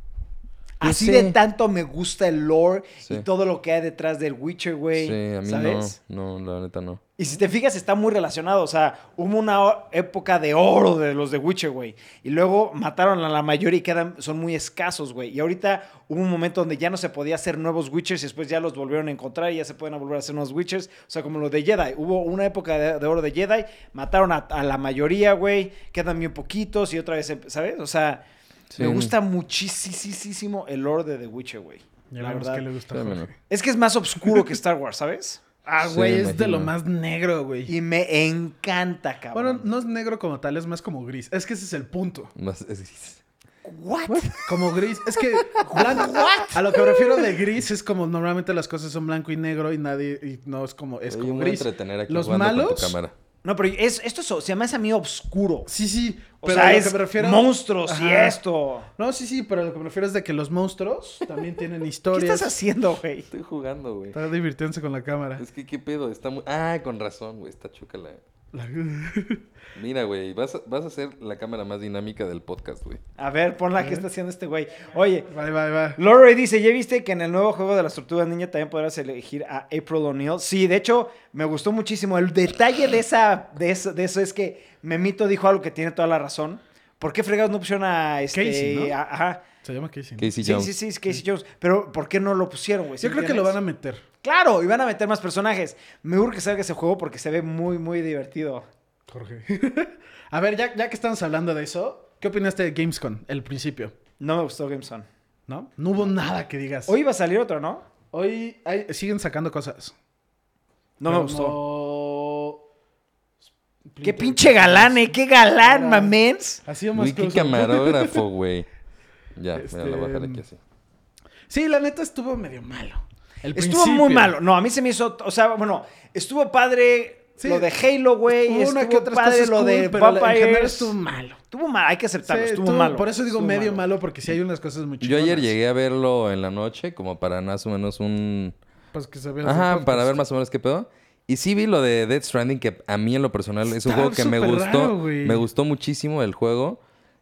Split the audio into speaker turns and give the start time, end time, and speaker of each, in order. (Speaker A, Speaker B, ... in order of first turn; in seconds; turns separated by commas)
Speaker A: 0.8-5.9, Speaker B: 0.8-1.4, Speaker B: 4.9-7.0, Speaker A: 7.2-28.2, Speaker B: 28.7-29.1, Speaker A: 28.8-32.6, Speaker C: 32.1-33.4, Speaker B: 32.9-33.3, Speaker A: 33.5-35.5, Speaker C: 35.7-37.7, Speaker B: 35.8-36.7, Speaker A: 37.7-39.6, Speaker C: 39.3-42.3, Speaker B: 42.4-43.2, Speaker A: 43.6-44.5, Speaker B: 44.1-44.4, Speaker C: 44.4-53.0, Speaker A: 45.6-46.6, Speaker B: 51.1-53.1, Speaker A: 53.4-55.7, Speaker C: 55.7-58.4, Speaker A: 56.4-58.9, Speaker C: 59.0-62.5, Speaker A: 62.1-63.3, Speaker B: 63.3-64.2, Speaker C: 64.1-65.4, Speaker B: 65.4-68.2, Speaker C: 68.5-69.4, Speaker B: 69.8-73.0, Speaker A: 73.2-75.3, Speaker C: 73.8-74.0, Speaker C: 75.3-76.0, Speaker A: 76.0-89.4, Speaker C: 88.3-89.0, Speaker C: 89.6-90.6, Speaker B: 90.2-90.7, Speaker A: 90.4-93.6, Speaker C: 93.0-94.0, Speaker A: 94.2-98.7, Speaker C: 99.1-103.9, Speaker A: 104.2-105.1, Speaker C: 105.5-106.9, Speaker A: 106.9-107.8, Speaker C: 108.1-109.9, Speaker A: 111.0-111.6, Speaker C: 111.0-112.6, Speaker C: 113.9-115.0, Speaker A: 114.0-116.6, Speaker C: 115.6-118.2, Speaker B: 116.9-118.7, Speaker B: 119.3-120.6, Speaker C: 119.5-120.4, Speaker C: 121.5-124.3, Speaker A: 123.5-130.9, Speaker C: 127.4-127.7, Speaker C: 128.3-131.4, Speaker A: 131.5-133.8, Speaker C: 132.2-135.5, Speaker B: 135.0-138.6, Speaker C: 138.9-140.2, Speaker B: 139.4-146.8, Speaker C: 143.7-145.4